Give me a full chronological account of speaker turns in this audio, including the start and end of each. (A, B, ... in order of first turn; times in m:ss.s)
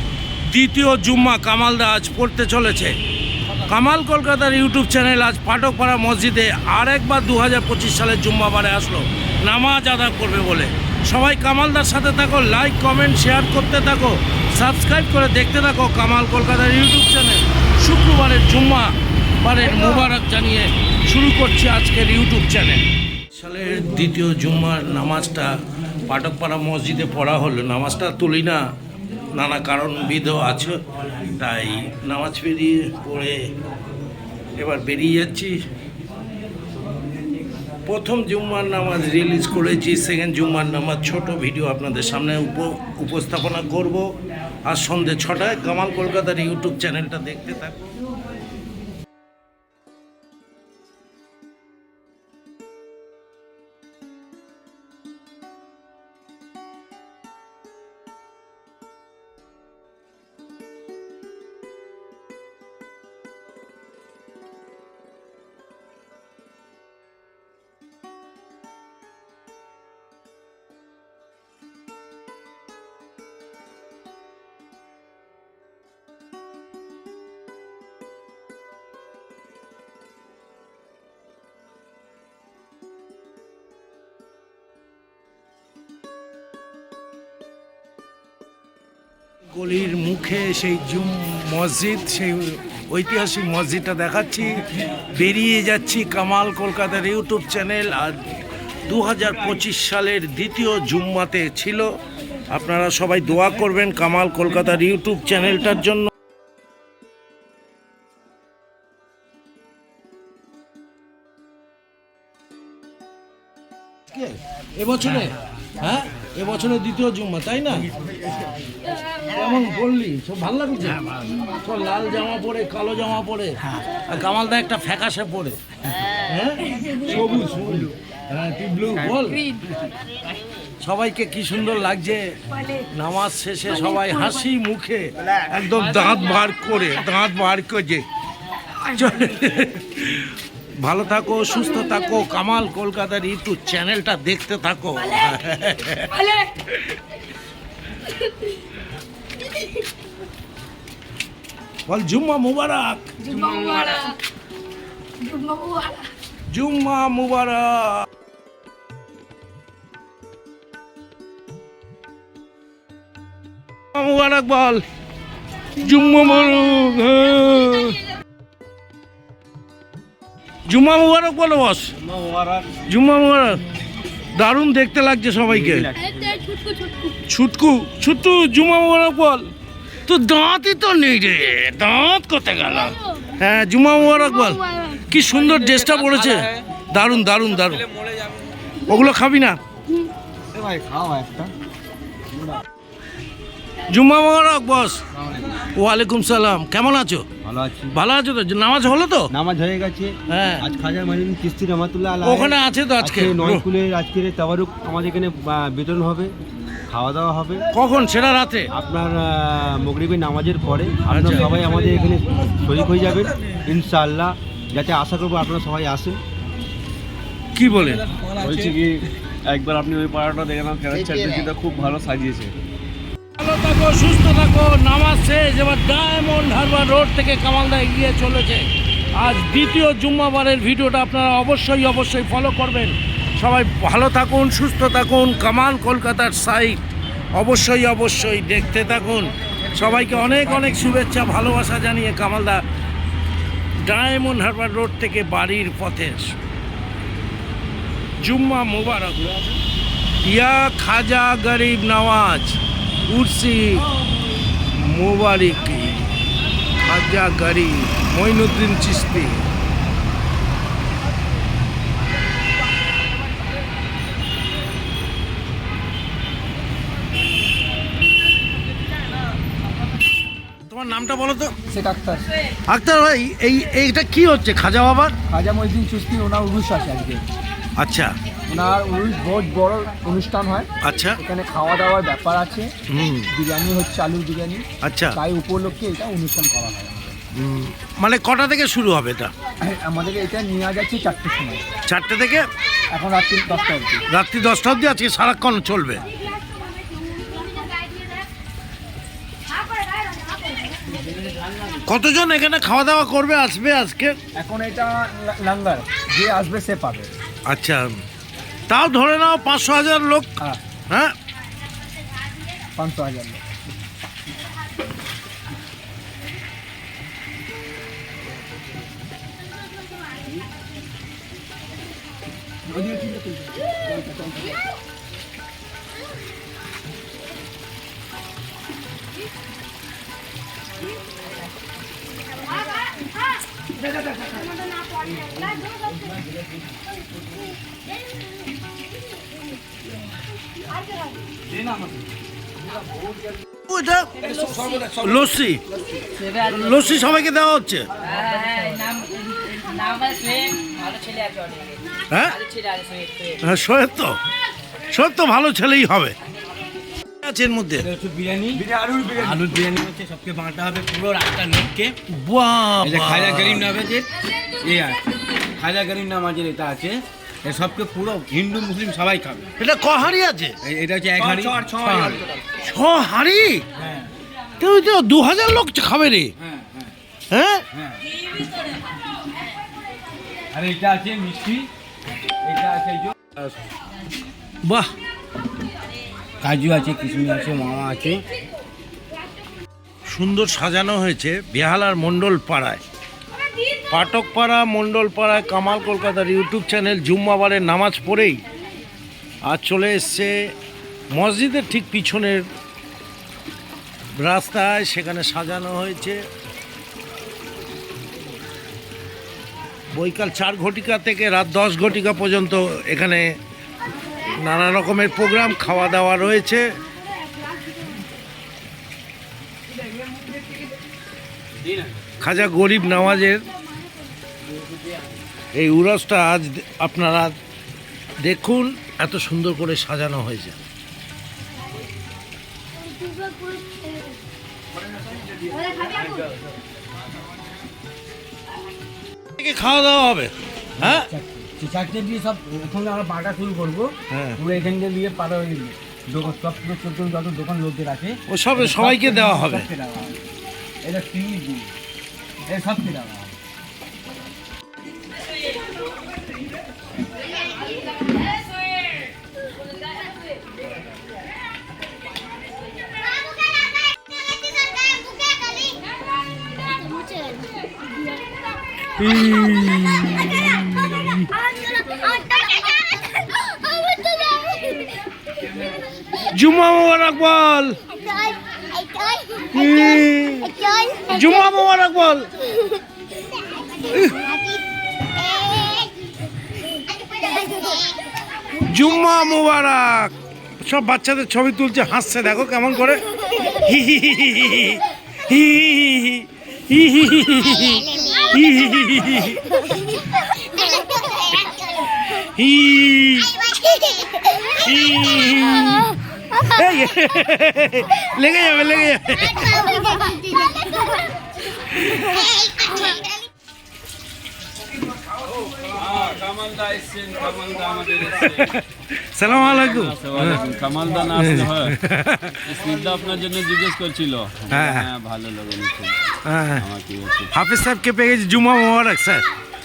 0:00.4-0:03.0 A
0:03.7-0:25.5 A
0:26.1-0:28.6 A
0:29.4-0:33.4 A
0:34.6-0:35.6 A
0:37.9-0:44.1 A
0:44.7-0:47.8 A
1:29.5-1:38.2 A
1:38.9-1:41.9 A
1:42.5-1:46.1 A
1:54.1-1:57.9 A
1:59.2-2:03.6 A
2:04.1-2:05.6 A
2:06.2-2:07.2 A
2:08.3-2:09.5 A
2:10.8-2:12.2 A
2:12.8-2:18.1 A
2:18.8-2:26.9 A
2:31.9-2:33.7 A
2:35.4-2:35.9 B
2:36.5-2:38.1 A
2:43.9-2:44.8 A
2:45.8-2:48.0 A
2:50.7-2:51.9 A
2:52.0-2:52.8 C
2:52.8-2:53.6 A
2:54.4-2:55.9 A
2:55.4-2:56.4 C
2:56.6-2:57.0 B
2:57.1-2:59.5 A
3:00.1-3:07.8 A
3:05.4-3:06.6 D
3:07.8-3:08.3 D
3:08.9-3:09.6 A
3:10.5-3:11.5 C
3:13.9-3:15.0 A
3:15.6-3:17.2 A
3:17.4-3:18.0 C
3:17.9-3:19.3 A
3:19.3-3:26.3 C
3:20.3-3:20.7 A
3:22.2-3:23.7 A
3:26.9-3:27.6 C
3:27.7-3:28.7 A
3:28.7-3:36.2 C
3:31.1-3:31.6 A
3:37.6-3:38.1 A
3:38.2-3:38.8 D
3:38.4-3:38.9 C
3:39.4-3:42.5 D
3:43.4-3:56.8 A
3:57.4-4:02.6 A
4:03.8-4:06.4 A
4:08.2-4:09.3 A
4:10.2-4:13.9 A
4:14.8-4:16.1 A
4:16.8-4:19.4 A
4:30.7-4:31.5 A
4:31.7-4:32.3 E
4:32.7-4:35.1 A
4:35.3-4:37.2 E
4:37.8-4:38.1 A
4:38.5-4:40.7 E
4:40.8-4:41.2 A
4:41.2-4:42.7 E
4:42.9-4:43.3 A
4:43.3-4:47.2 E
4:44.8-4:45.2 A
4:47.4-4:49.3 A
4:49.6-4:51.6 E
4:51.9-4:52.4 A
4:52.9-4:54.0 E
4:54.1-4:56.0 A
4:56.6-4:58.2 B
4:59.7-5:00.5 B
5:01.8-5:04.2 A
5:04.4-5:07.1 E
5:07.5-5:07.9 A
5:08.7-5:10.4 A
5:12.8-5:13.4 E
5:22.7-5:24.5 E
5:43.7-5:44.3 A
5:44.9-5:45.6 A
5:46.3-5:47.9 A
5:48.7-5:51.8 B
5:52.1-5:52.5 A
5:52.5-5:53.3 B
5:53.4-5:54.2 A
5:54.9-5:56.2 A
5:57.2-5:57.9 A
5:57.8-5:58.6 C
5:58.5-5:59.4 E
5:59.2-6:02.0 C
6:02.1-6:03.8 A
6:02.8-6:04.1 C
6:04.6-6:05.0 C
6:05.6-6:09.5 C
6:09.6-6:10.6 A
6:10.6-6:12.1 C
6:11.2-6:12.2 E
6:12.6-6:13.6 A
6:14.6-6:16.3 A
6:16.6-6:16.8 C
6:17.3-6:17.6 A
6:17.8-6:18.0 C
6:20.5-6:21.7 C
6:22.4-6:23.1 C
6:24.6-6:24.9 A
6:26.4-6:28.2 C
6:30.1-6:32.8 A
6:33.9-6:38.4 A
6:39.5-6:40.3 A
6:41.1-6:42.4 A
6:44.2-6:46.2 A
6:49.9-6:53.3 A
6:54.2-6:56.7 A
7:02.2-7:03.5 A
7:05.5-7:07.4 A
7:08.2-7:10.6 A
7:13.0-7:13.9 B
7:19.4-7:21.1 A
7:20.9-7:30.1 C
7:24.1-7:24.4 A
7:28.3-7:29.7 A
7:30.8-7:31.7 C
7:32.5-7:33.3 C
7:49.0-7:51.3 A
7:56.3-7:57.8 A
7:59.4-8:02.4 A
8:03.9-8:04.3 A
8:08.7-8:19.9 A
8:22.0-8:23.5 A
8:24.3-8:30.2 A
8:35.4-8:38.6 D
8:38.2-8:40.4 A
8:39.2-8:41.8 D
8:41.1-8:42.4 A
8:42.4-8:46.0 D
8:44.5-8:44.9 A
8:46.3-8:46.6 A
8:46.6-8:47.4 D
8:47.3-8:49.3 A